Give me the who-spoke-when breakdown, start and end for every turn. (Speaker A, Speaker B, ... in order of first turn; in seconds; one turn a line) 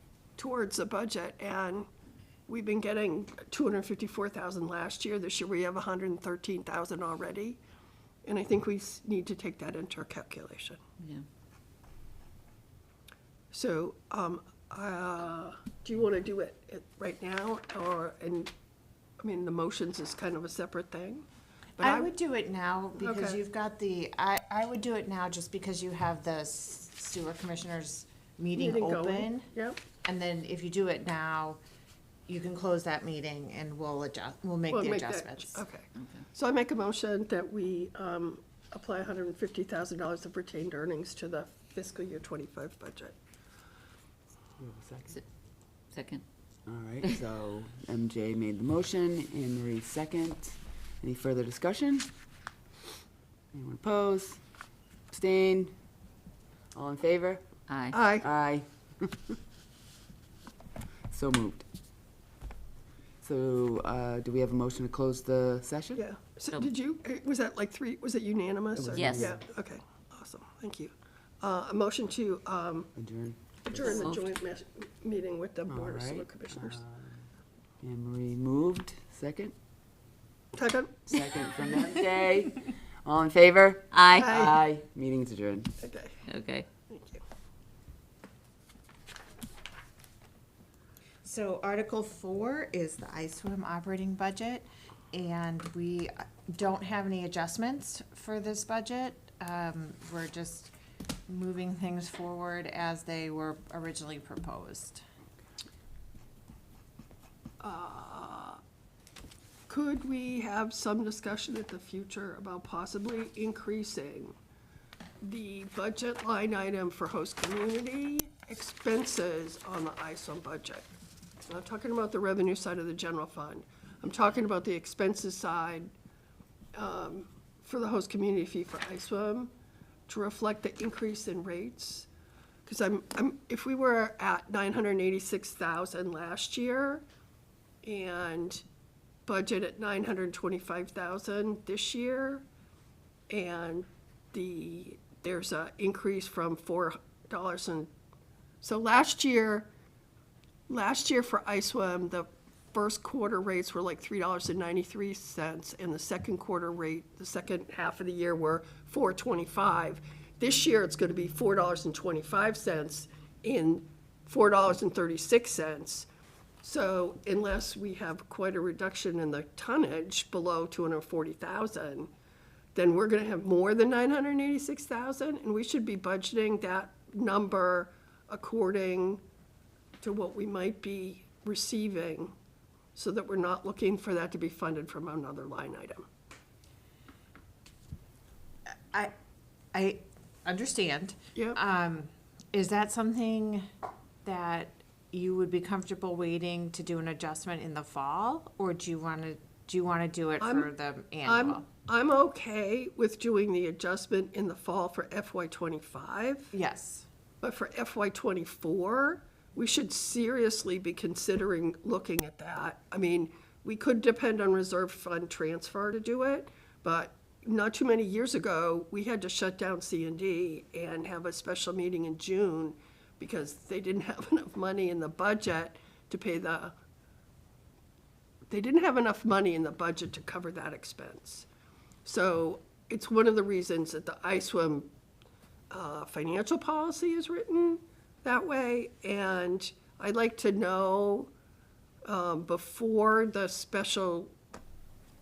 Speaker A: 0.4-1.9
Speaker A: 2.5-7.6
Speaker A: 8.2-10.8
Speaker B: 11.0-11.2
Speaker A: 13.5-18.5
Speaker A: 19.2-21.3
Speaker A: 21.8-22.1
Speaker C: 21.8-29.5
Speaker A: 22.9-23.4
Speaker A: 28.5-29.8
Speaker C: 30.1-31.6
Speaker C: 32.3-35.6
Speaker A: 34.7-43.2
Speaker B: 36.0-36.2
Speaker D: 44.6-45.2
Speaker B: 45.9-46.2
Speaker D: 46.7-52.1
Speaker D: 53.5-54.4
Speaker D: 55.1-55.8
Speaker D: 56.7-57.5
Speaker B: 57.7-58.0
Speaker A: 57.9-58.3
Speaker D: 58.2-59.4
Speaker D: 61.1-61.7
Speaker D: 63.2-66.0
Speaker A: 65.9-72.9
Speaker D: 68.7-69.4
Speaker B: 68.9-69.3
Speaker D: 73.0-74.1
Speaker A: 73.7-76.8
Speaker B: 73.8-74.2
Speaker D: 75.7-77.2
Speaker D: 77.8-79.5
Speaker A: 80.5-81.1
Speaker D: 81.1-85.7
Speaker B: 83.9-84.3
Speaker A: 84.1-84.6
Speaker A: 85.8-86.2
Speaker B: 86.2-86.7
Speaker A: 86.9-87.2
Speaker C: 91.2-100.7
Speaker C: 101.3-105.0
Speaker A: 107.6-108.6
Speaker A: 109.7-114.3
Speaker A: 115.2-120.9
Speaker A: 121.4-125.9
Speaker A: 126.7-129.5
Speaker A: 130.1-132.1
Speaker A: 132.7-137.1
Speaker A: 137.8-138.6
Speaker A: 139.3-142.5
Speaker A: 143.3-147.9
Speaker A: 148.6-149.7
Speaker A: 150.7-166.1
Speaker A: 166.6-172.1
Speaker A: 172.8-179.2
Speaker A: 180.0-182.3
Speaker A: 182.9-186.1
Speaker C: 188.7-189.1
Speaker C: 189.7-193.7
Speaker A: 191.3-191.6
Speaker C: 194.2-201.7
Speaker A: 200.4-200.7
Speaker A: 201.2-206.5
Speaker C: 206.5-207.1
Speaker A: 207.4-226.7
Speaker A: 228.5-231.5
Speaker A: 232.1-234.9
Speaker A: 235.7-241.3
Speaker A: 242.1-244.3